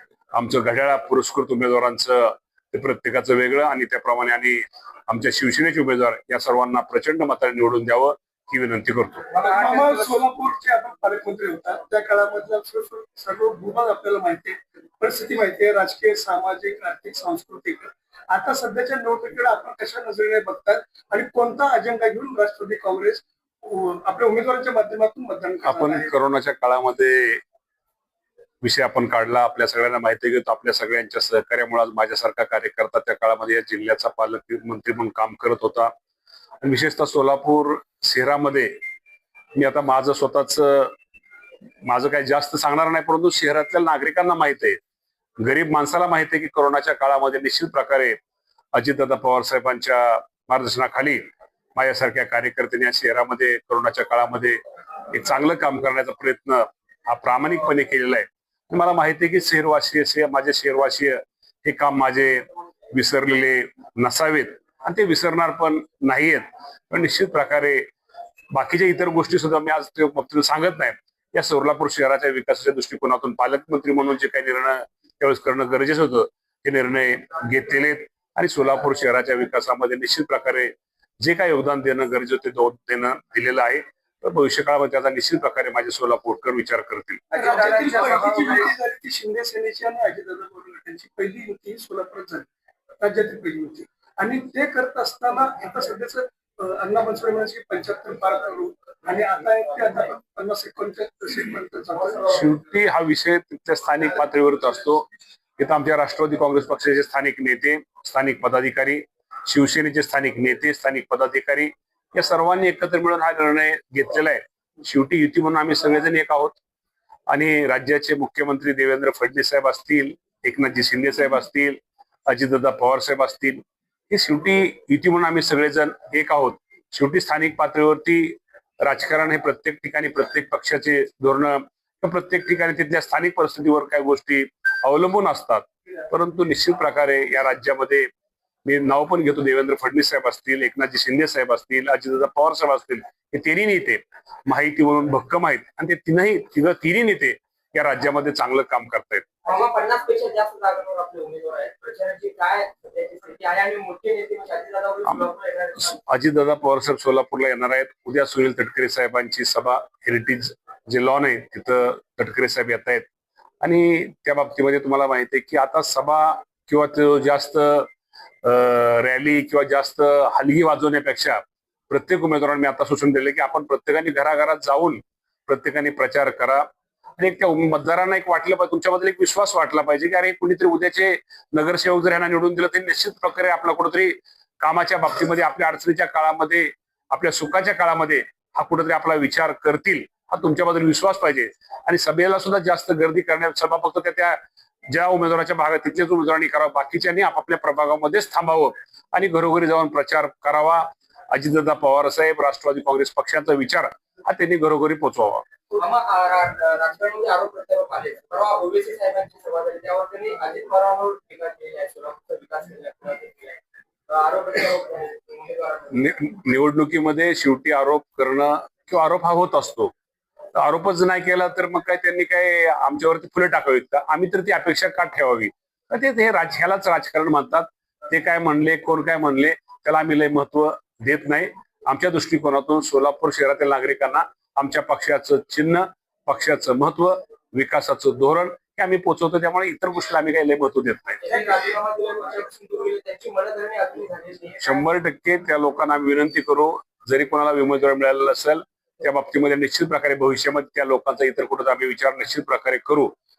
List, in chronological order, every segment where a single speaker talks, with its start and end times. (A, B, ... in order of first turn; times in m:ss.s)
0:00.3-0:09.3 A
0:09.3-0:26.1 B
0:09.4-0:10.0 C
0:25.7-0:27.4 A
0:28.6-0:35.9 A
0:36.6-0:38.7 A
0:39.6-0:40.9 A
0:41.8-0:44.8 A
0:45.4-0:48.2 A
0:48.7-0:51.2 A
0:51.8-1:07.9 A
1:08.5-1:27.2 A
1:27.3-1:28.7 C
1:27.3-1:32.5 B
1:33.0-1:42.4 B
1:42.3-1:45.1 A
1:45.6-1:56.6 A
1:57.3-2:18.1 A
2:18.7-2:29.3 A
2:29.4-2:36.0 C
2:35.9-2:43.0 A
2:43.6-2:47.9 A
2:48.4-2:56.6 A
2:57.2-3:25.5 A
3:25.7-3:36.0 C
3:35.9-3:39.9 A
3:40.6-4:01.2 A
4:01.2-4:04.8 C
4:04.6-4:13.1 A